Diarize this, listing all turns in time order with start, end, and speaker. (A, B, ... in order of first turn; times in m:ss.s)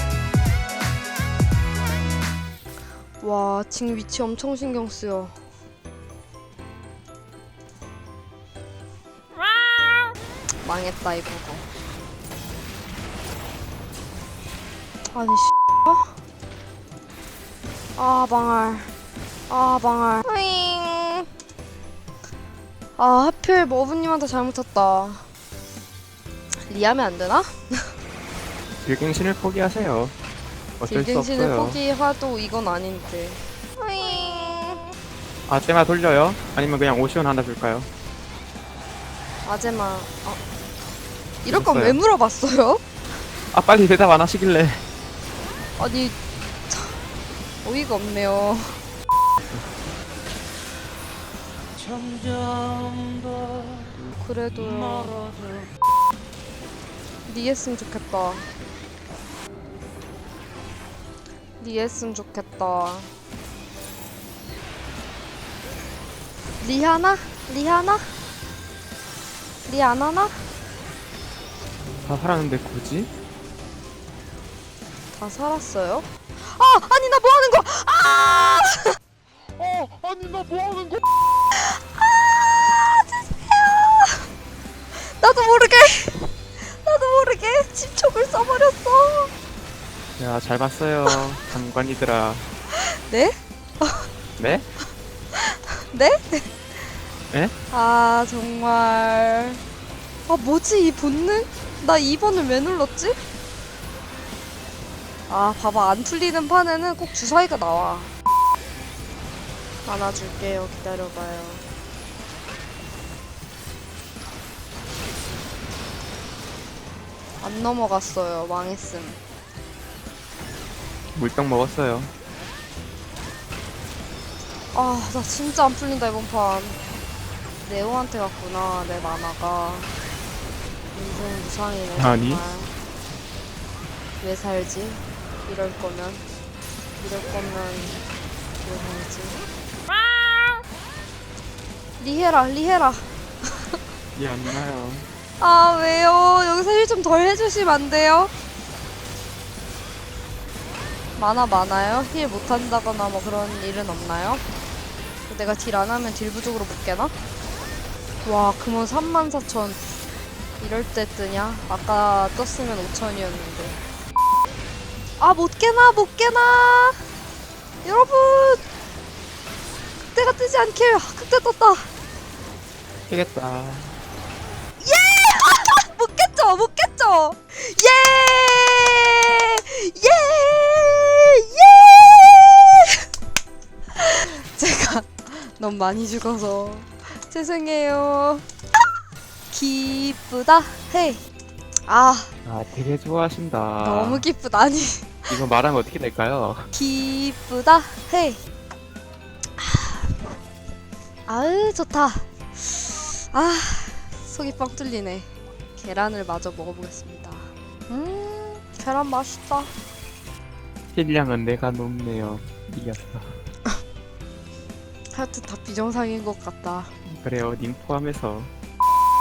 0:03.2-0:05.3 A
0:10.6-0:11.7 A
0:15.1-0:16.1 A
0:18.0-0:18.9 A
0:19.5-0:21.3 A
0:23.0-0:25.2 A
0:26.5-0:27.9 A
0:28.8-0:30.1 B
0:30.8-0:31.8 B
0:30.8-0:34.8 A
0:35.5-0:37.9 B
0:39.4-0:40.4 A
0:41.4-0:42.8 A
0:41.4-0:42.0 B
0:43.4-0:44.8 B
0:45.8-0:46.2 A
0:46.7-0:47.0 A
0:47.6-0:48.8 A
0:54.1-0:55.2 A
0:57.2-0:58.5 A
1:01.6-1:03.1 A
1:06.6-1:08.1 A
1:09.6-1:10.4 A
1:12.0-1:13.1 B
1:15.1-1:19.0 A
1:21.5-1:24.3 A
1:24.9-1:29.3 A
1:30.2-1:32.4 B
1:32.7-1:34.1 A
1:34.4-1:34.7 B
1:35.3-1:37.0 A
1:37.7-1:39.6 A
1:40.3-1:43.2 A
1:45.3-1:48.1 A
1:49.8-1:51.6 A
1:57.4-1:59.2 A
2:01.1-2:02.1 B
2:04.7-2:06.8 A
2:07.6-2:10.0 A
2:10.9-2:12.7 A
2:12.0-2:12.4 B
2:14.2-2:16.2 A
2:17.0-2:18.0 A
2:18.6-2:19.4 A
2:22.0-2:23.8 A
2:24.2-2:25.1 B
2:25.4-2:28.3 A
2:31.2-2:34.4 A
2:35.3-2:37.1 A
2:38.2-2:39.8 A
2:40.6-2:43.8 A
2:45.2-2:47.0 A
2:47.8-2:48.6 A
2:50.1-2:51.9 A
2:53.1-2:54.0 B
2:54.8-3:03.0 A
3:03.9-3:08.5 A
3:09.5-3:11.2 A
3:11.9-3:12.3 A
3:12.4-3:14.3 B
3:13.8-3:15.3 A
3:15.3-3:16.7 B
3:16.7-3:18.4 A
3:19.6-3:20.2 A
3:21.3-3:29.7 A
3:30.9-3:33.4 B
3:35.1-3:36.9 A
3:37.0-3:38.5 B